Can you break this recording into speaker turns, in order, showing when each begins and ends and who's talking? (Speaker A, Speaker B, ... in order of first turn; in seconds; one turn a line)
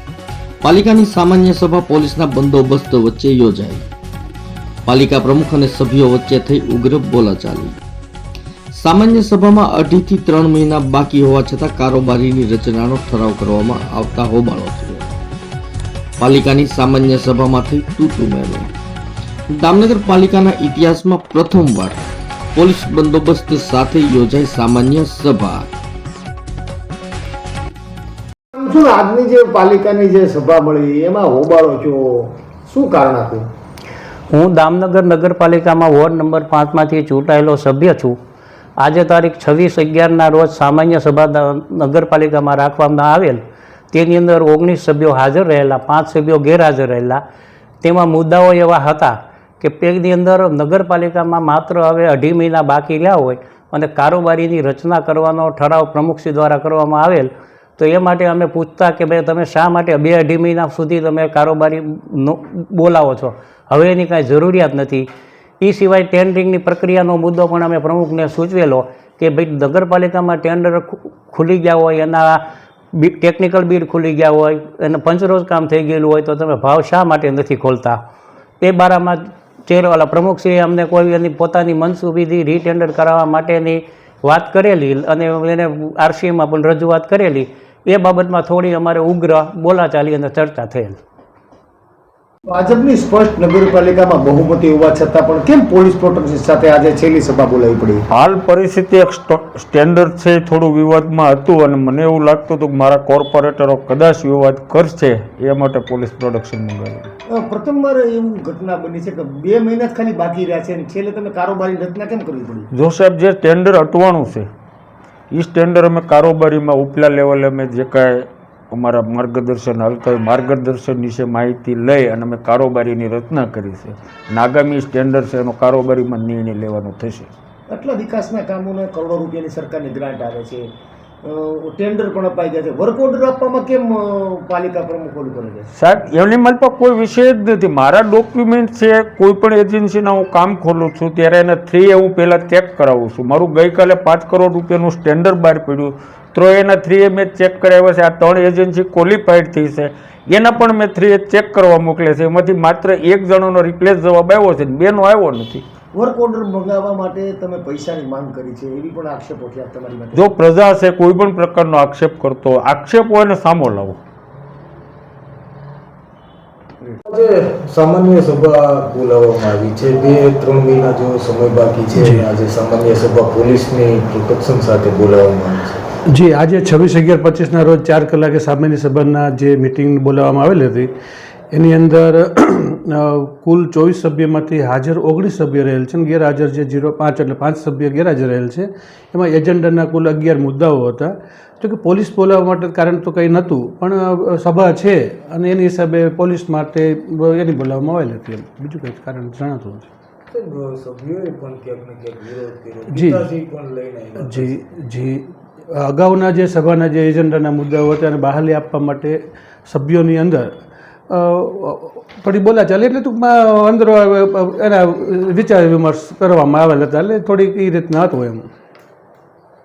Speaker A: 0.6-3.9
Speaker A: 4.8-7.8
Speaker A: 8.8-15.1
Speaker A: 16.2-18.7
Speaker A: 19.5-22.0
Speaker A: 22.5-25.7
Speaker B: 28.6-33.5
Speaker C: 34.3-38.2
Speaker C: 38.8-43.4
Speaker C: 43.9-47.2
Speaker C: 47.8-65.1
Speaker C: 65.6-72.4
Speaker C: 73.0-78.0
Speaker C: 78.6-91.0
Speaker B: 92.5-98.0
Speaker D: 98.1-107.1
Speaker B: 107.4-112.7
Speaker D: 112.7-114.5
Speaker D: 115.3-127.3
Speaker B: 127.7-130.7
Speaker B: 131.2-135.7
Speaker D: 135.7-155.6
Speaker B: 156.0-160.2
Speaker D: 160.1-164.0
Speaker E: 166.9-175.8
Speaker F: 171.9-172.3
Speaker F: 176.1-180.9
Speaker F: 181.5-199.9
Speaker E: 200.3-204.6
Speaker F: 202.9-203.3
Speaker F: 204.2-218.5